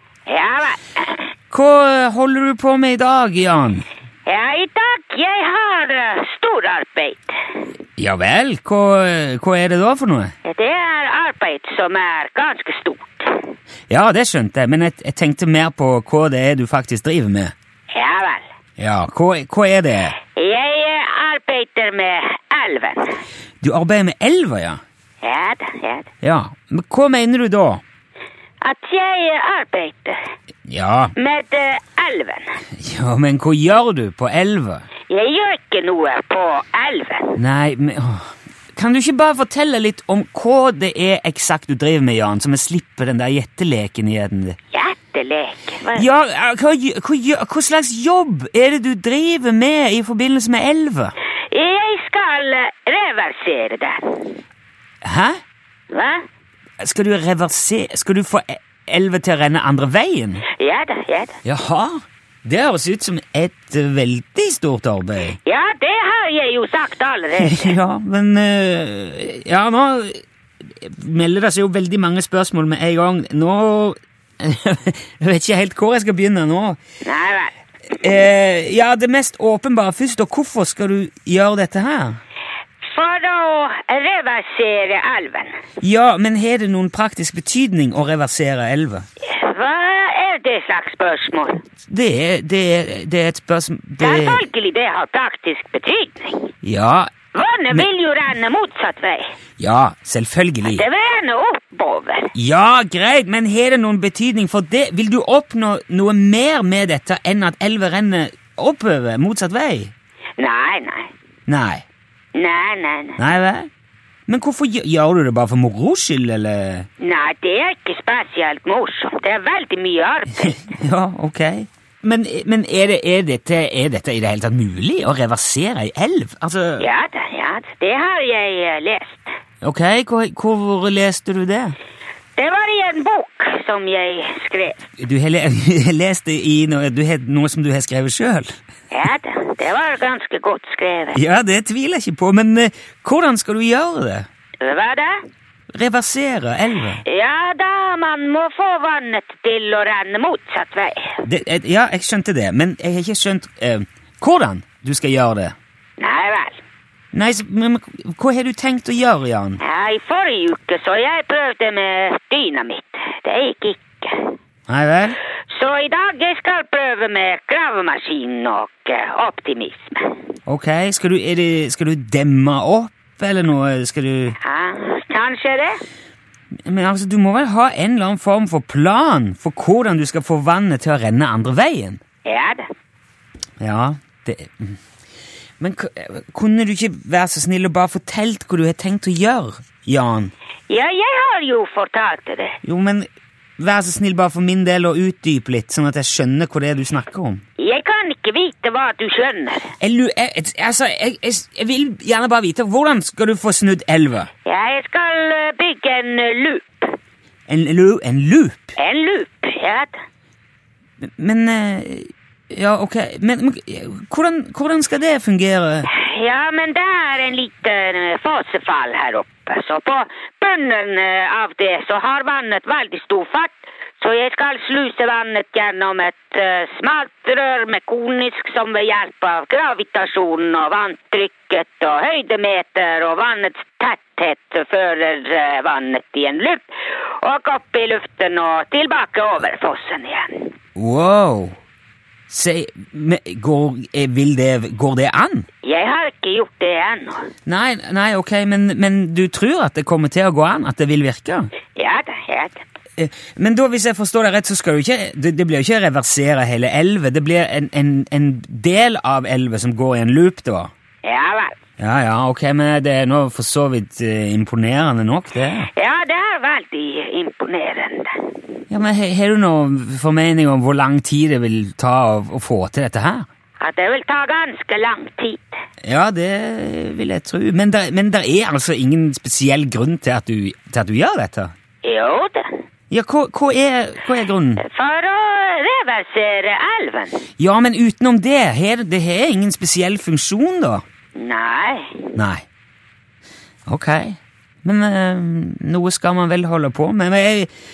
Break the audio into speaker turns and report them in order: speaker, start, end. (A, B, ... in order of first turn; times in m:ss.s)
0:00.2-0:01.2 A
0:01.5-0:03.8 B
0:04.2-0:07.4 A
0:08.0-0:10.3 B
0:10.4-0:13.5 A
0:13.9-0:17.5 B
0:17.9-0:18.4 A
0:18.8-0:20.2 B
0:20.3-0:23.2 A
0:23.6-0:24.8 B
0:25.2-0:26.1 A
0:26.2-0:27.8 B
0:28.6-0:30.2 A
0:30.7-0:31.1 B
0:31.2-0:32.6 A
0:32.8-0:34.9 B
0:35.1-0:37.4 A
0:37.4-0:44.6 B
0:44.7-0:46.1 A
0:45.9-0:51.1 B
0:51.5-0:54.3 A
0:55.0-0:55.4 B
0:55.9-0:56.2 A
0:56.8-1:00.4 B
1:00.6-1:01.4 A
1:01.4-1:05.4 B
1:05.4-1:07.7 A
1:07.4-1:16.8 B
1:17.0-1:17.5 A
1:17.9-1:22.2 B
1:22.9-1:25.6 A
1:25.8-1:29.0 B
1:29.2-1:31.6 A
1:31.9-1:34.4 B
1:34.0-1:36.5 A
1:36.6-1:37.1 B
1:37.3-1:39.3 A
1:39.6-1:40.8 B
1:40.6-1:42.3 A
1:42.3-1:49.9 B
1:50.4-1:51.1 A
1:51.5-1:51.8 B
1:52.3-1:53.2 A
1:53.2-1:53.7 B
1:54.3-1:56.9 B
1:57.0-2:00.7 A
2:00.5-2:06.9 B
2:06.8-2:09.3 A
2:09.6-2:11.8 B
2:12.4-2:14.9 A
2:15.0-2:18.6 B
2:18.9-2:21.2 A
2:21.1-2:24.3 B
2:24.6-2:25.2 A
2:25.7-2:27.0 B
2:27.0-2:31.2 A
2:31.2-2:35.5 B
2:36.0-2:36.6 A
2:37.1-2:39.6 B
2:39.6-2:44.3 A
2:44.7-2:45.2 B
2:45.5-2:50.1 A
2:50.5-2:54.4 B
2:54.4-2:55.8 A
2:56.6-3:02.0 B
3:02.2-3:02.6 A
3:03.6-3:04.8 B
3:05.6-3:10.3 B
3:10.7-3:12.6 A
3:12.6-3:17.4 B
3:17.6-3:19.7 A
3:19.8-3:24.3 B
3:24.4-3:27.0 A
3:27.5-3:28.7 B
3:28.8-3:30.0 A
3:31.0-3:35.9 B
3:35.9-4:00.5 A
4:00.8-4:01.6 B
4:02.3-4:05.5 B
4:05.6-4:07.3 A
4:07.4-4:11.5 B
4:11.7-4:12.6 A
4:13.0-4:20.7 B
4:21.0-4:21.6 A
4:21.8-4:25.7 B
4:25.7-4:28.3 A
4:28.7-4:33.2 B
4:33.6-4:35.6 A
4:35.8-4:41.5 B
4:41.8-4:42.5 A
4:42.9-4:44.6 B
4:44.6-4:47.2 A
4:47.4-4:50.8 B
4:51.2-4:52.1 A
4:52.1-4:52.4 B
4:53.7-4:57.5 B